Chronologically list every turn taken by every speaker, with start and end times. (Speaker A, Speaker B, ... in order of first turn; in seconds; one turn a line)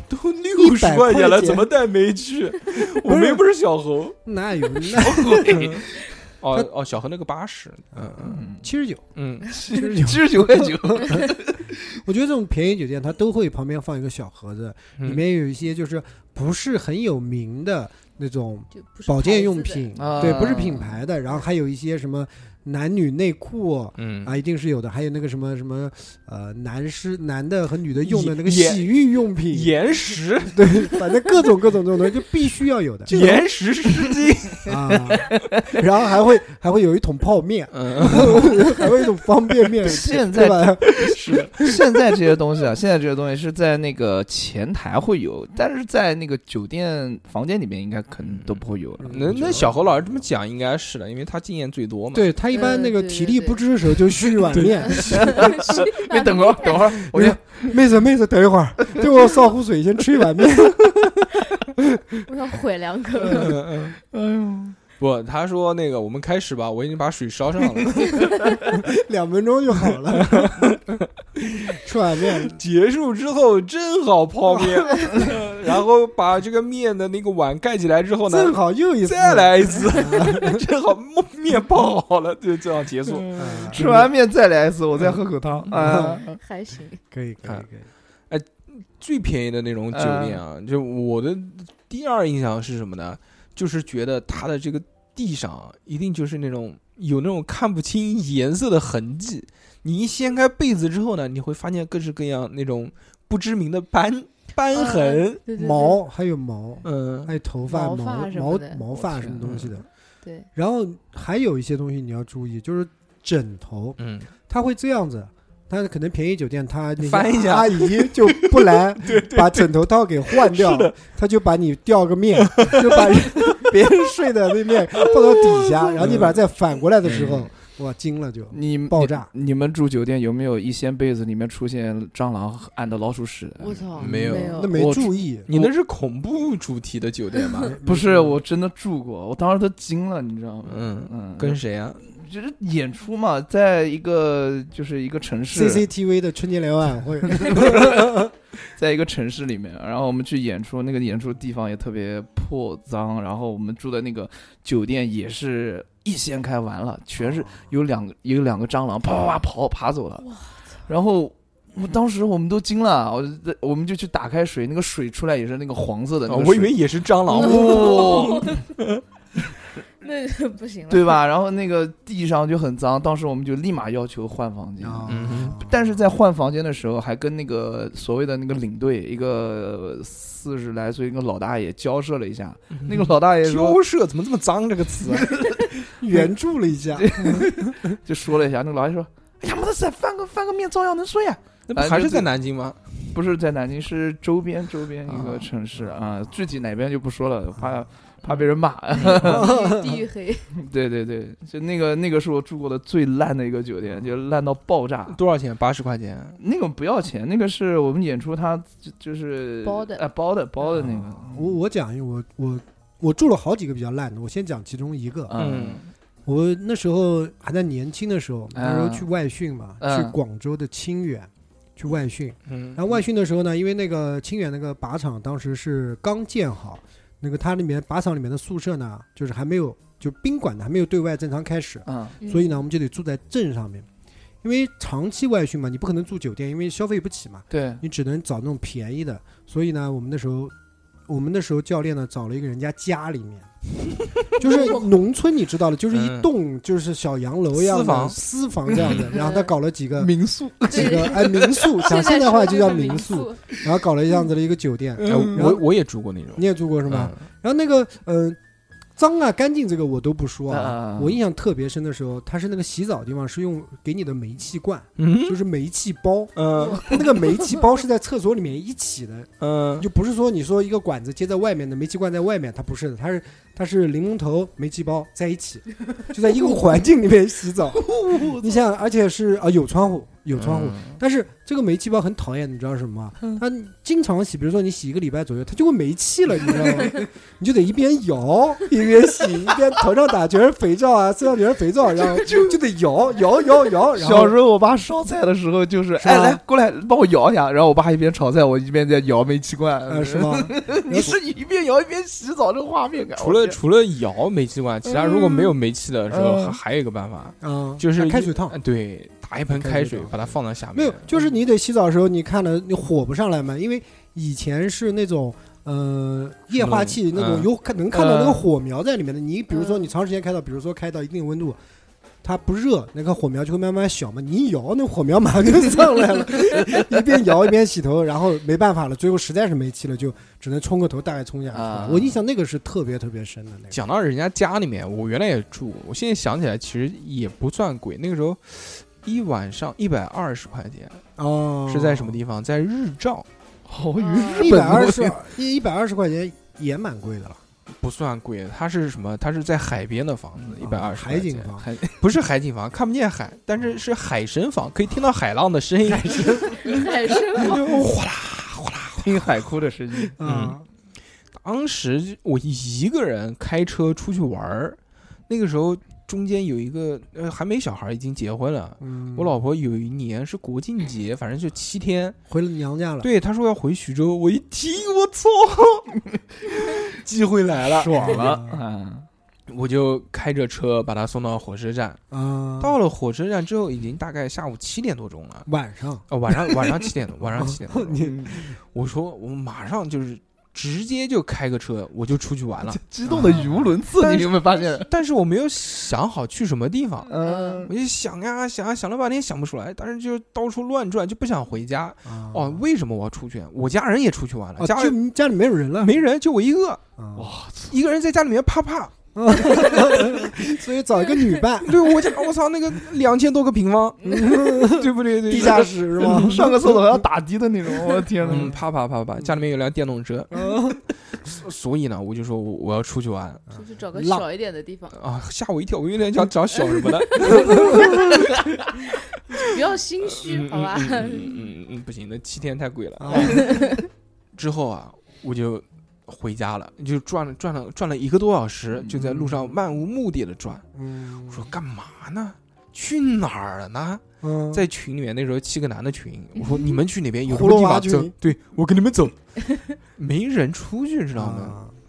Speaker A: 0.1-4.2
Speaker B: 0.6-1.7
Speaker B: 3.0-3.5
Speaker B: 4.2-5.8
Speaker C: 4.9-5.9
Speaker A: 5.5-8.4
Speaker B: 7.9-9.0
Speaker C: 8.2-8.7
Speaker A: 9.2-9.5
Speaker C: 9.5-11.8
Speaker B: 9.7-11.3
Speaker B: 11.9-29.8
Speaker A: 15.0-15.2
Speaker D: 18.7-20.3
Speaker C: 19.9-21.0
Speaker A: 24.0-24.4
Speaker A: 28.0-28.9
Speaker A: 29.5-30.9
Speaker B: 30.5-33.4
Speaker A: 33.1-35.3
Speaker B: 34.7-41.5
Speaker A: 37.7-38.6
Speaker C: 39.8-49.4
Speaker A: 41.2-41.5
Speaker A: 48.3-52.3
Speaker B: 49.0-50.2
Speaker B: 52.1-55.6
Speaker D: 52.5-53.6
Speaker A: 54.5-55.3
Speaker C: 55.0-57.8
Speaker D: 55.0-56.9
Speaker B: 57.1-61.3
Speaker D: 62.3-63.6
Speaker A: 63.3-64.0
Speaker C: 64.1-64.8
Speaker A: 65.0-68.1
Speaker B: 68.7-70.6
Speaker A: 70.1-71.8
Speaker B: 71.8-72.6
Speaker A: 72.3-84.0
Speaker B: 74.5-74.8
Speaker B: 78.3-80.6
Speaker C: 83.1-86.4
Speaker B: 83.4-84.1
Speaker B: 85.8-86.2
Speaker D: 85.9-87.0
Speaker B: 87.1-87.9
Speaker A: 88.3-105.4
Speaker C: 89.9-90.4
Speaker D: 104.7-106.0
Speaker B: 105.5-109.9
Speaker A: 106.8-107.3
Speaker D: 107.7-108.9
Speaker C: 109.1-109.3
Speaker A: 109.4-109.8
Speaker D: 110.2-110.5
Speaker B: 110.5-129.3
Speaker A: 114.0-114.3
Speaker A: 117.0-119.7
Speaker A: 120.3-121.0
Speaker A: 122.4-123.8
Speaker A: 124.7-125.3
Speaker A: 126.0-126.4
Speaker A: 127.1-127.5
Speaker C: 128.5-135.7
Speaker D: 133.6-134.8
Speaker A: 134.0-134.7
Speaker B: 134.0-135.5
Speaker A: 135.5-137.8
Speaker B: 137.6-138.4
Speaker C: 137.8-145.8
Speaker A: 140.7-142.0
Speaker B: 145.5-148.3
Speaker C: 148.8-160.3
Speaker B: 157.2-157.6
Speaker D: 160.2-160.6
Speaker C: 160.9-166.7
Speaker A: 166.3-169.0
Speaker C: 167.3-168.6
Speaker D: 167.3-168.6
Speaker D: 170.0-171.2
Speaker C: 170.9-183.8
Speaker B: 174.8-176.0
Speaker A: 175.1-175.6
Speaker A: 182.8-185.4
Speaker C: 185.4-185.6
Speaker B: 186.0-187.9
Speaker C: 186.9-192.3
Speaker A: 191.7-192.9
Speaker C: 193.1-199.5
Speaker A: 195.1-195.5
Speaker D: 199.1-200.5
Speaker B: 199.2-200.1
Speaker C: 200.5-205.2
Speaker A: 205.1-206.4
Speaker C: 206.4-211.6
Speaker D: 209.6-210.1
Speaker B: 211.0-215.3
Speaker C: 215.3-215.8
Speaker A: 215.4-215.9
Speaker B: 216.3-233.9
Speaker C: 218.6-219.1
Speaker C: 219.8-220.2
Speaker A: 222.5-222.8
Speaker C: 231.9-232.2
Speaker D: 232.2-232.5
Speaker B: 234.4-240.5
Speaker C: 237.5-237.8
Speaker B: 241.1-243.5
Speaker B: 244.4-250.1
Speaker D: 244.4-244.9
Speaker A: 245.9-246.3
Speaker A: 247.5-248.2
Speaker A: 248.7-249.1
Speaker D: 249.1-249.5
Speaker C: 250.0-252.2
Speaker B: 250.7-255.7
Speaker D: 250.7-253.4
Speaker C: 255.0-255.4
Speaker A: 255.1-257.2
Speaker B: 256.4-258.4
Speaker B: 259.0-294.4
Speaker C: 260.5-261.2
Speaker A: 265.0-265.4
Speaker A: 266.4-266.9
Speaker A: 269.4-269.9
Speaker C: 277.8-278.5
Speaker A: 280.4-281.0
Speaker C: 292.2-292.6
Speaker C: 293.9-303.6
Speaker B: 296.0-296.4
Speaker B: 299.9-301.2
Speaker A: 303.2-311.1
Speaker C: 306.1-306.6
Speaker B: 307.4-308.6
Speaker B: 309.5-321.6
Speaker A: 316.6-318.5
Speaker D: 319.6-319.9
Speaker B: 322.2-333.8
Speaker C: 331.5-332.2
Speaker A: 333.7-341.0
Speaker B: 341.2-342.2
Speaker A: 341.7-343.3
Speaker C: 343.7-345.2
Speaker D: 344.0-344.5
Speaker B: 344.4-347.4
Speaker A: 347.8-359.4
Speaker B: 350.6-351.7
Speaker C: 351.6-352.0
Speaker B: 355.9-356.7
Speaker D: 356.6-357.8
Speaker C: 359.0-360.1
Speaker B: 360.2-360.6
Speaker A: 360.2-360.6
Speaker A: 361.4-372.2
Speaker B: 368.8-369.4
Speaker B: 372.3-373.1
Speaker A: 373.0-378.3
Speaker B: 377.6-378.6
Speaker C: 378.0-379.1
Speaker A: 379.5-382.0
Speaker B: 382.1-382.8
Speaker A: 382.6-385.5
Speaker B: 385.5-386.1
Speaker A: 386.1-392.8
Speaker B: 387.4-388.5
Speaker C: 388.0-388.4
Speaker C: 392.7-394.9
Speaker B: 393.1-393.7
Speaker A: 394.0-397.1
Speaker C: 397.1-397.7
Speaker D: 397.2-397.7
Speaker A: 397.7-405.0
Speaker B: 402.1-402.6
Speaker B: 404.6-405.9
Speaker A: 405.8-406.8
Speaker B: 407.0-407.3
Speaker C: 407.2-407.7
Speaker A: 407.7-409.0
Speaker B: 409.1-411.8
Speaker A: 411.6-416.6
Speaker B: 414.0-416.8
Speaker C: 416.0-418.5
Speaker B: 418.2-418.6
Speaker A: 418.2-420.3
Speaker B: 420.3-420.8
Speaker A: 421.2-423.4
Speaker D: 423.5-425.0
Speaker B: 423.9-424.2
Speaker A: 424.9-428.3
Speaker D: 427.2-428.1
Speaker B: 427.4-427.9
Speaker D: 429.3-431.5
Speaker A: 430.0-433.7
Speaker B: 433.0-433.6
Speaker D: 433.2-433.8
Speaker A: 434.4-440.6
Speaker C: 438.8-439.5
Speaker B: 440.8-441.5
Speaker A: 441.3-449.2
Speaker B: 444.2-444.6
Speaker B: 447.3-448.1
Speaker A: 449.9-451.6
Speaker B: 451.1-451.7